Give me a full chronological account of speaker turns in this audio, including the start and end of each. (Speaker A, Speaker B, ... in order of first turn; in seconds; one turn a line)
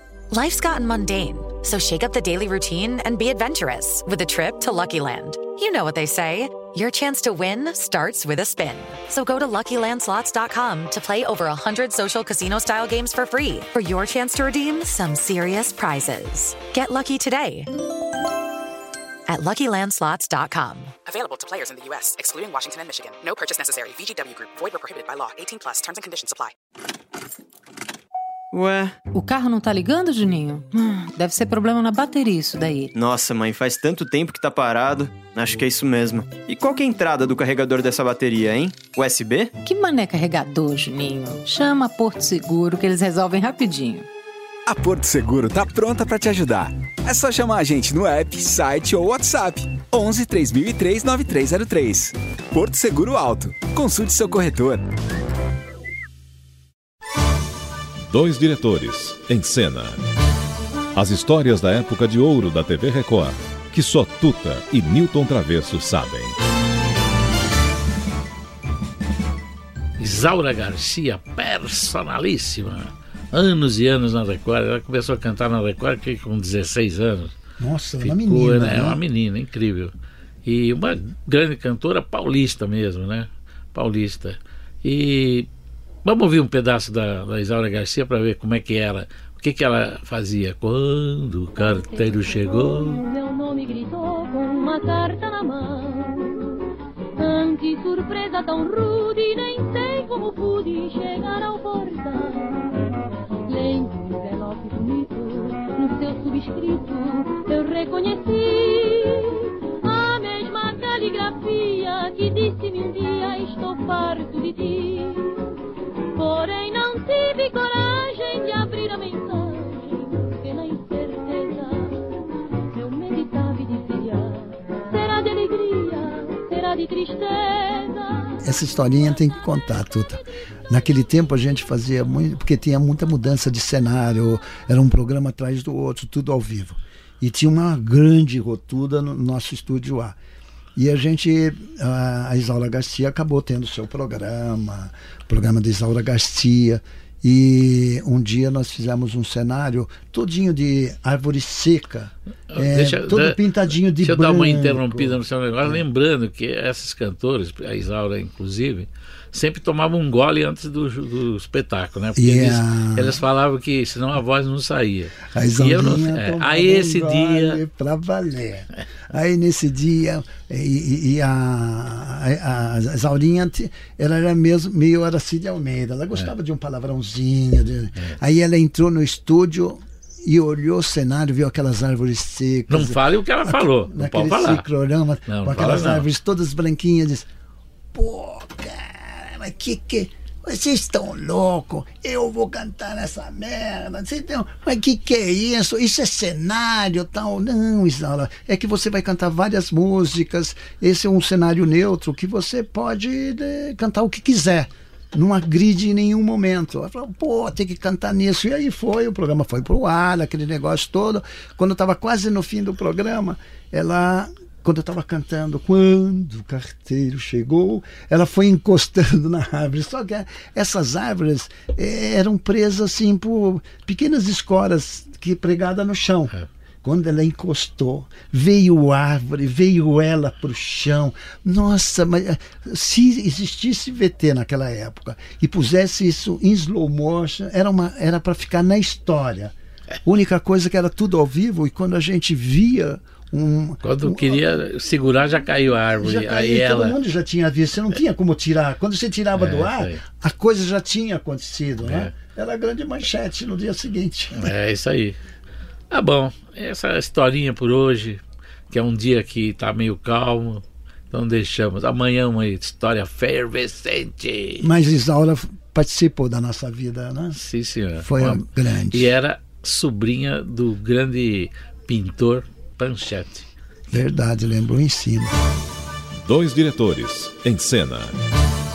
Speaker A: 0.3-17.7
Speaker A: 19.3-20.9
Speaker B: 21.1-26.5
Speaker C: 28.5-28.9
Speaker D: 29.1-32.9
Speaker C: 32.9-39.5
Speaker D: 39.6-43.9
Speaker E: 44.7-54.8
Speaker F: 58.1-60.0
Speaker F: 60.9-66.4
Speaker G: 70.0-77.3
Speaker H: 77.6-79.0
Speaker G: 78.0-79.9
Speaker G: 80.4-85.5
Speaker G: 86.0-93.0
Speaker I: 91.6-96.6
Speaker I: 97.2-102.8
Speaker I: 103.4-115.5
Speaker I: 116.1-122.1
Speaker I: 122.7-128.4
Speaker H: 128.4-140.2
Speaker H: 140.8-155.8
Speaker G: 152.5-153.4
Speaker G: 154.0-167.6
Speaker H: 162.2-163.2
Speaker H: 165.3-187.3
Speaker G: 182.7-184.7
Speaker G: 185.3-186.1
Speaker H: 187.9-239.5
Speaker H: 240.0-244.4
Speaker G: 243.8-247.0
Speaker H: 246.0-254.5
Speaker G: 249.3-250.0
Speaker G: 251.8-252.1
Speaker G: 254.3-255.2
Speaker G: 255.9-264.7
Speaker H: 264.6-267.4
Speaker G: 267.3-273.5
Speaker H: 268.0-269.1
Speaker H: 273.9-275.3
Speaker F: 276.1-278.2